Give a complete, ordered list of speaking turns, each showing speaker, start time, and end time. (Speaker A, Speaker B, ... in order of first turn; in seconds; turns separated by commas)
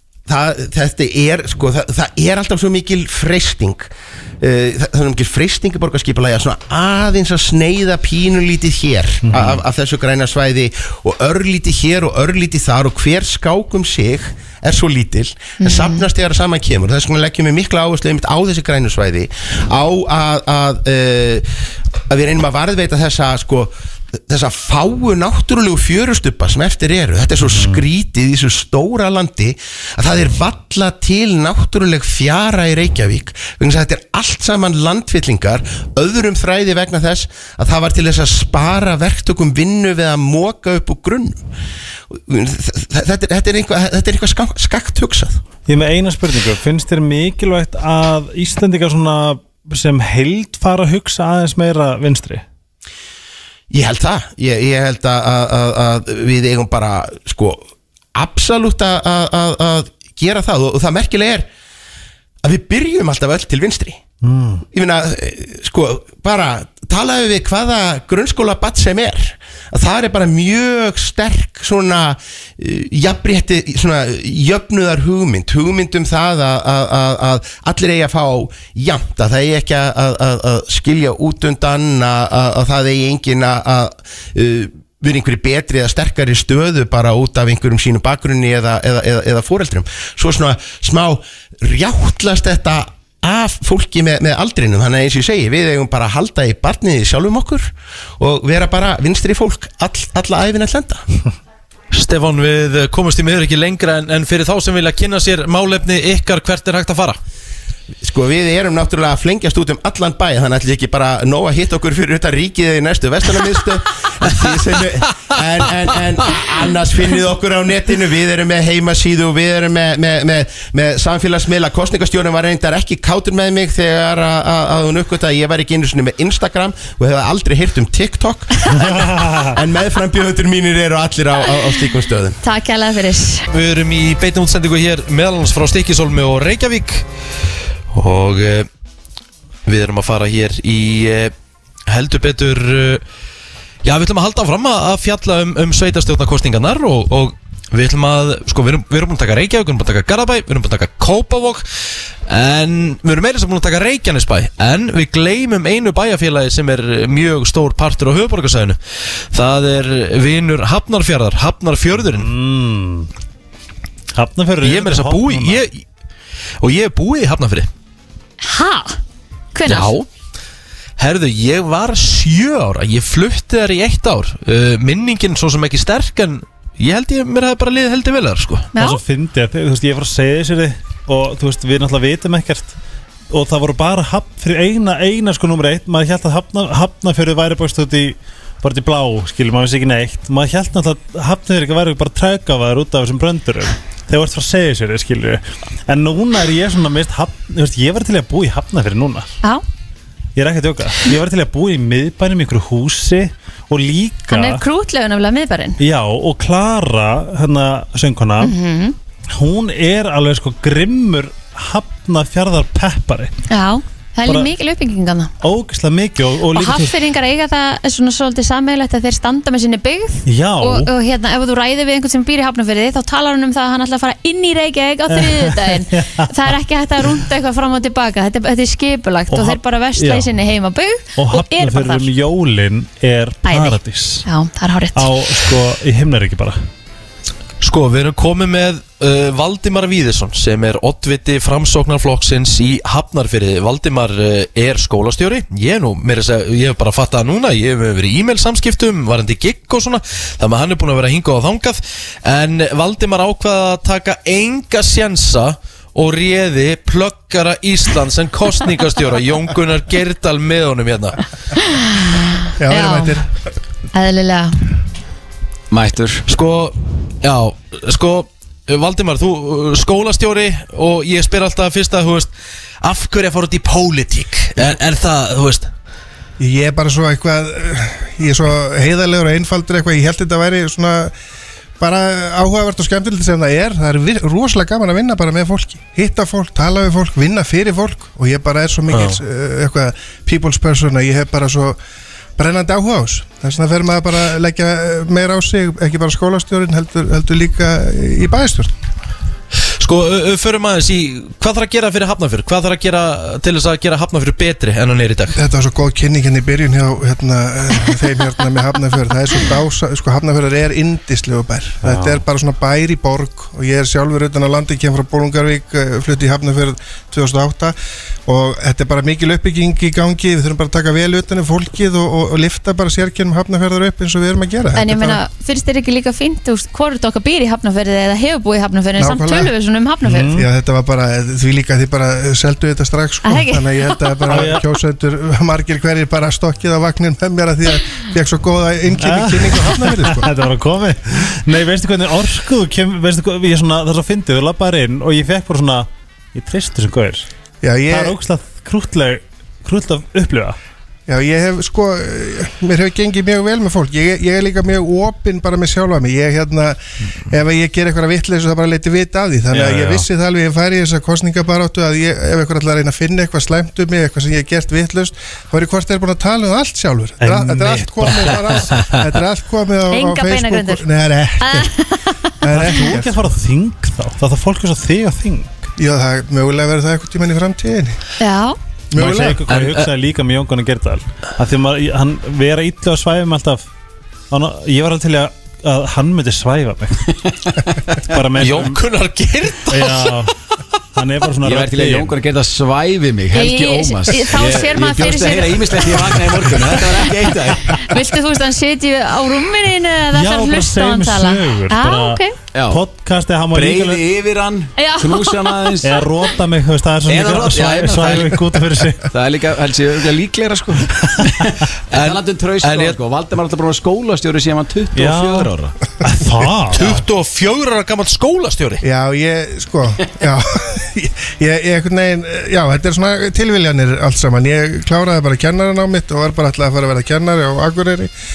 Speaker A: 0.3-21.5, Speaker B: 9.2-9.6, Speaker C: 15.6-16.0, Speaker A: 22.1-41.4, Speaker B: 27.4-27.9, Speaker A: 42.1-45.4, Speaker B: 45.7-52.4, Speaker A: 53.7-57.6, Speaker A: 58.2-61.5, Speaker A: 62.4-64.0, Speaker B: 64.2-64.6, Speaker A: 64.7-101.0, Speaker D: 101.9-107.2, Speaker A: 108.0-128.5, Speaker B: 128.8-129.5, Speaker A: 129.5-132.4, Speaker C: 132.4-133.5, Speaker D: 133.5-137.1, Speaker D: 137.9-138.7, Speaker D: 139.7-141.3, Speaker D: 141.9-143.0, Speaker D: 143.8-151.7, Speaker D: 152.3-162.3, Speaker B: 162.0-163.1, Speaker B: 164.1-165.6, Speaker D: 164.6-165.8, Speaker D: 166.6-167.7, Speaker C: 168.4-169.0, Speaker C: 169.6-169.9, Speaker D: 169.7-170.1, Speaker D: 171.0-178.7, Speaker C: 178.7-179.0, Speaker B: 178.8-182.7, Speaker B: 183.3-199.3, Speaker B: 200.4-204.6, Speaker C: 204.3-205.8, Speaker B: 205.8-208.6, Speaker C: 208.4-209.0, Speaker B: 209.3-213.3, Speaker C: 213.5-215.3, Speaker B: 214.3-214.5, Speaker B: 215.4-216.9, Speaker C: 216.5-232.1, Speaker B: 220.3-220.9, Speaker B: 225.1-226.3, Speaker B: 229.3-230.3, Speaker B: 231.2-234.3, Speaker C: 233.4-235.1, Speaker B: 235.0-236.6, Speaker D: 237.6-261.2, Speaker C: 261.6-263.2, Speaker E: 262.6-263.3, Speaker C: 263.9-264.6, Speaker F: 265.7-266.2, Speaker D: 266.3-272.3, Speaker D: 272.8-275.7, Speaker E: 276.4-281.1, Speaker E: 281.8-291.8, Speaker D: 288.9-289.2, Speaker E: 292.4-298.7, Speaker D: 299.8-305.4, Speaker E: 305.4-317.8, Speaker B: 311.8-312.2, Speaker E: 318.3-325.2, Speaker C: 324.8-330.3, Speaker E: 329.0-329.5, Speaker B: 330.0-330.5, Speaker E: 330.2-340.3, Speaker C: 333.2-334.0, Speaker B: 334.3-334.6, Speaker B: 339.0-347.3, Speaker E: 347.6-348.1, Speaker B: 347.9-350.6, Speaker E: 351.1-356.8, Speaker E: 357.3-371.7, Speaker B: 359.5-360.0, Speaker B: 367.2-368.6, Speaker C: 369.9-370.9, Speaker C: 371.4-372.9, Speaker E: 372.4-373.2, Speaker B: 372.5-375.5, Speaker E: 375.8-378.0, Speaker C: 378.2-378.6, Speaker E: 378.9-379.4, Speaker B: 379.0-383.7, Speaker D: 379.5-379.9, Speaker B: 384.3-387.2, Speaker B: 388.1-388.8, Speaker D: 388.4-390.2, Speaker B: 389.7-390.3, Speaker B: 391.0-392.2, Speaker F: 391.4-397.8, Speaker C: 393.3-396.2, Speaker C: 397.9-402.3, Speaker B: 400.1-404.0, Speaker F: 402.5-402.8, Speaker F: 403.5-406.0, Speaker C: 404.8-405.7, Speaker B: 405.8-409.0, Speaker F: 407.1-415.7, Speaker D: 411.9-413.0, Speaker B: 414.9-416.8, Speaker D: 416.8-418.8, Speaker E: 418.8-428.1